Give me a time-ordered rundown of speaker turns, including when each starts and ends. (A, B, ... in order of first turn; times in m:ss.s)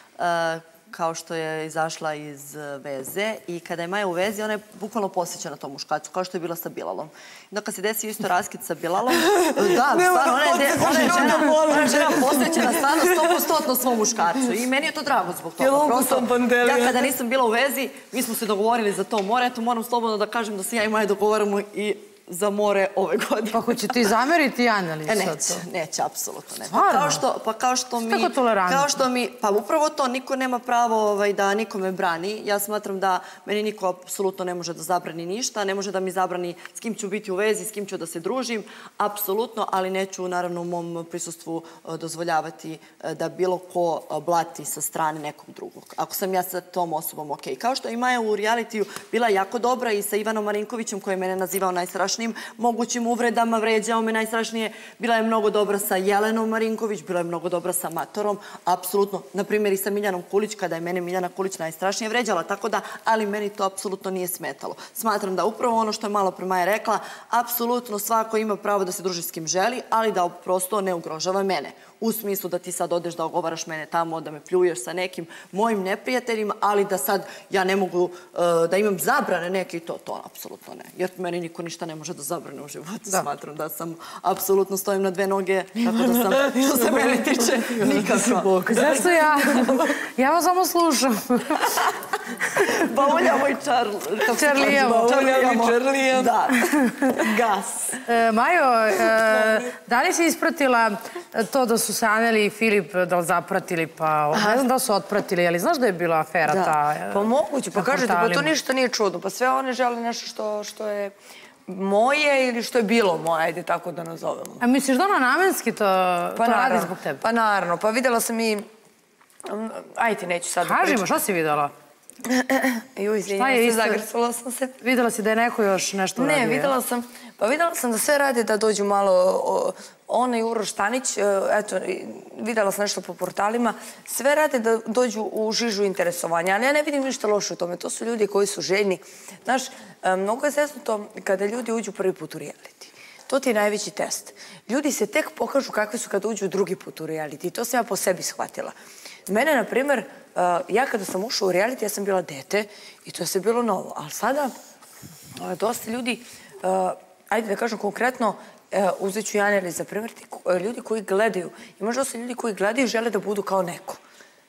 0:00.2-0:24.2 A
0:09.2-0:13.4 B
0:15.6-0:17.1 B
0:23.5-0:25.6 C
0:25.1-1:29.1 A
0:26.7-0:27.2 C
0:28.0-0:28.9 C
1:25.9-1:29.9 B
1:28.7-1:31.6 C
1:31.6-1:31.9 A
1:32.6-1:37.2 A
1:34.3-1:35.2 C
1:34.6-1:36.5 B
1:36.6-1:37.1 C
1:37.2-1:38.0 B
1:38.1-1:48.5 C
1:39.2-1:39.5 B
1:44.3-1:44.7 B
1:46.5-1:51.1 B
1:51.7-1:54.6 B
1:54.6-1:57.2 C
1:56.4-1:58.6 B
1:59.5-2:01.1 B
2:00.6-2:01.7 C
2:02.2-2:04.8 B
2:03.3-2:04.0 C
2:04.8-2:06.7 C
2:06.2-2:28.7 B
2:29.3-2:34.5 B
2:35.4-2:44.0 B